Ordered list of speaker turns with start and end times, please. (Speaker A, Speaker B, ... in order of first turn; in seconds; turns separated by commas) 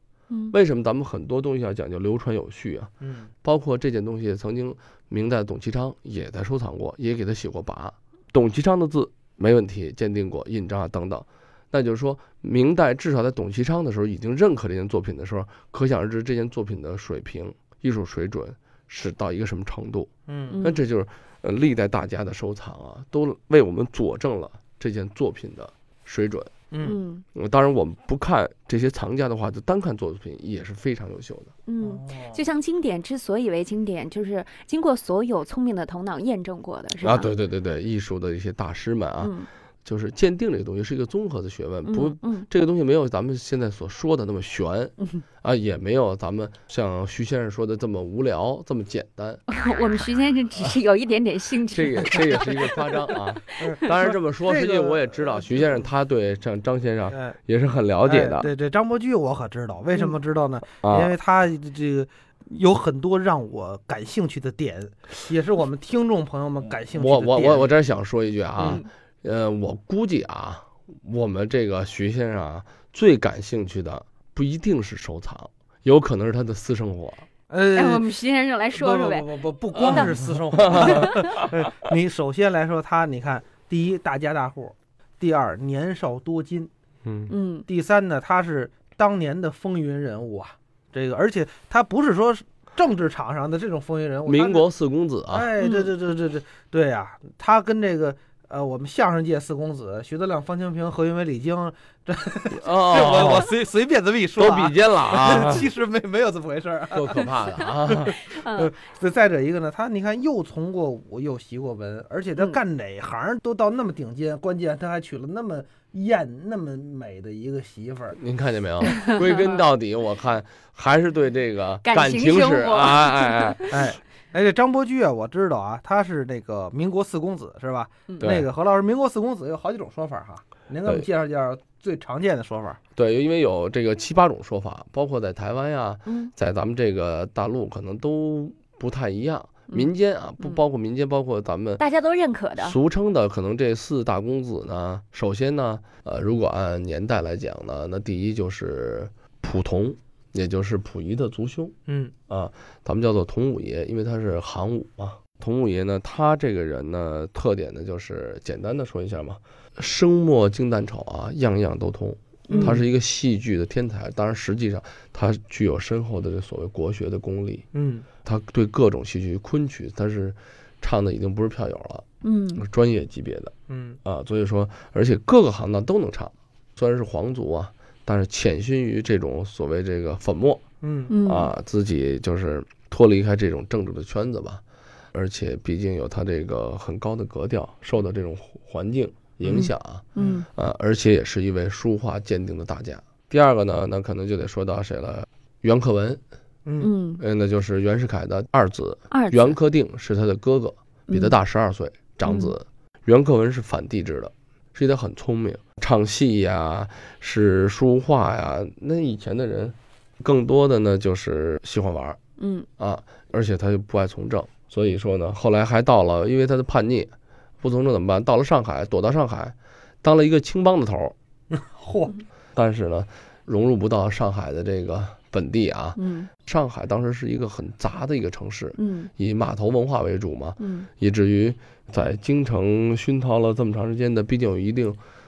Speaker A: 0.3-0.5, Speaker B: 0.5-2.9, Speaker C: 3.0-3.3, Speaker B: 3.4-20.1, Speaker C: 20.3-20.6, Speaker A: 20.5-20.8, Speaker B: 20.6-26.5, Speaker C: 26.7-27.0, Speaker A: 26.8-27.2, Speaker B: 27.3-31.5, Speaker A: 31.6-37.3, Speaker C: 31.8-32.4, Speaker B: 37.0-39.3, Speaker A: 39.2-39.5, Speaker B: 39.8-49.4, Speaker A: 41.8-42.5, Speaker A: 49.5-53.6, Speaker B: 51.7-58.5, Speaker C: 53.6-55.8, Speaker C: 57.1-57.4, Speaker C: 58.0-67.7, Speaker B: 60.8-61.1, Speaker B: 66.9-77.2, Speaker C: 77.5-78.0, Speaker A: 77.8-79.3, Speaker C: 78.7-86.7, Speaker B: 79.8-80.1, Speaker B: 80.7-81.0, Speaker B: 87.0-87.3, Speaker A: 87.3-87.7, Speaker C: 87.7-94.7, Speaker B: 94.2-95.5, Speaker C: 95.3-118.2, Speaker A: 95.6-95.9, Speaker B: 102.5-103.5, Speaker B: 104.4-105.7, Speaker B: 106.9-108.1, Speaker A: 108.3-108.7, Speaker B: 118.1-123.6, Speaker A: 118.8-119.2, Speaker A: 121.8-123.7, Speaker C: 123.7-132.8, Speaker B: 128.2-128.5, Speaker B: 132.9-141.8, Speaker A: 136.1-136.3, Speaker A: 139.7-140.6, Speaker A: 141.8-142.8, Speaker B: 142.6-151.7, Speaker C: 151.9-152.1, Speaker B: 152.3-167.7, Speaker C: 162.5-162.8, Speaker C: 167.7-168.1, Speaker B: 168.2-172.0, Speaker A: 172.2-172.6, Speaker B: 172.6-173.5, Speaker C: 173.7-174.0, Speaker B: 174.0-180.6, Speaker C: 180.8-181.1, Speaker A: 181.1-181.5, Speaker B: 181.2-184.6, Speaker B: 185.1-196.2, Speaker C: 189.4-190.4, Speaker A: 190.2-190.5, Speaker C: 196.6-196.9, Speaker A: 196.8-197.2, Speaker B: 197.2-212.2, Speaker A: 199.1-199.6, Speaker A: 201.1-201.3, Speaker A: 202.2-202.5, Speaker A: 212.4-212.7, Speaker B: 212.8-217.1, Speaker B: 217.6-221.1, Speaker C: 221.5-222.2, Speaker B: 222.5-235.0, Speaker A: 225.9-226.3, Speaker A: 228.7-229.1, Speaker A: 230.6-230.9